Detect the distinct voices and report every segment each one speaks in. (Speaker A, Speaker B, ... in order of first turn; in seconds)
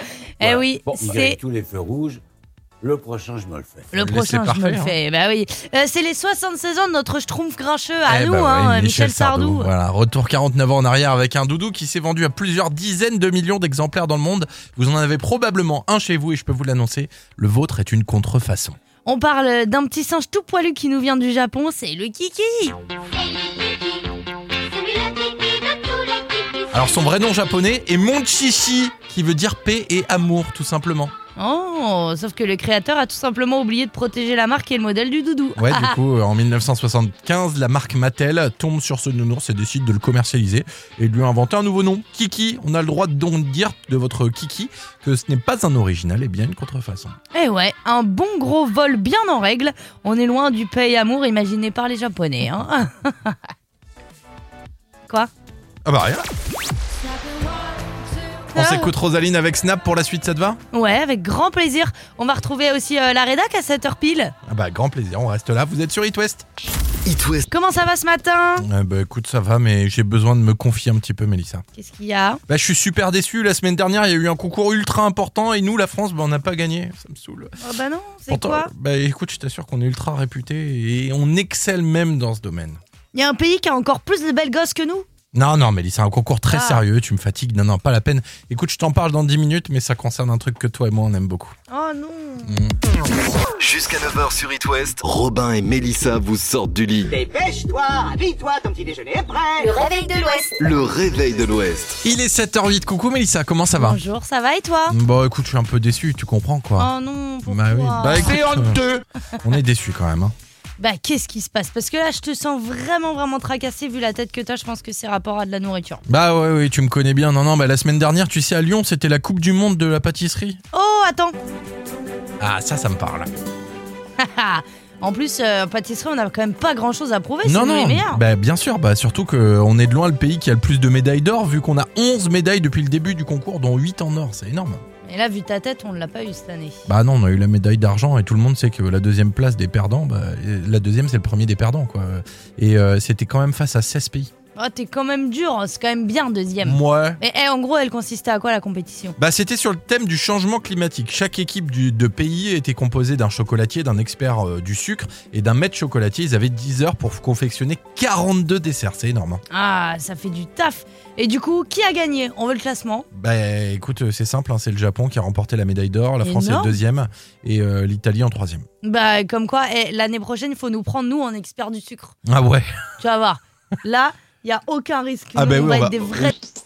Speaker A: 0.4-1.4, 3.9-9.7, 19.1-22.8, 31.4-36.0, 47.3-53.4, 58.5-58.9, 60.7-64.3, 67.5-68.7, 71.8-72.4, 77.6-78.7, 83.1-85.1, 86.5-86.8, 91.7-92.6, 103.8-105.0, 106.8-108.5, 110.8-116.0, 120.7-121.3, 124.2-128.2, 135.0-136.8, 144.6-149.2, 159.5-163.1, 166.2-166.8, 168.8-172.2, 173.0-176.4
Speaker B: 0.4-2.2, 2.8-3.9
Speaker C: 4.0-5.0, 8.1-18.8, 26.7-31.1, 35.6-47.2, 55.9-56.3, 58.5-60.6, 64.5-66.5, 68.6-71.7, 72.5-77.5, 78.3-82.8, 85.3-91.5, 92.5-92.8, 102.0-104.0, 104.9-106.9, 107.5-110.3, 116.1-120.6, 122.4-123.3, 127.4-134.8, 136.9-144.3, 146.6-147.2, 149.2-159.4, 163.1-168.7, 172.2-172.7, 175.3-176.3
Speaker D: 23.1-24.1, 24.7-26.9, 99.6-100.5
Speaker E: 67.0-67.5, 93.6-97.2, 100.6-102.0
Speaker F: 97.2-99.5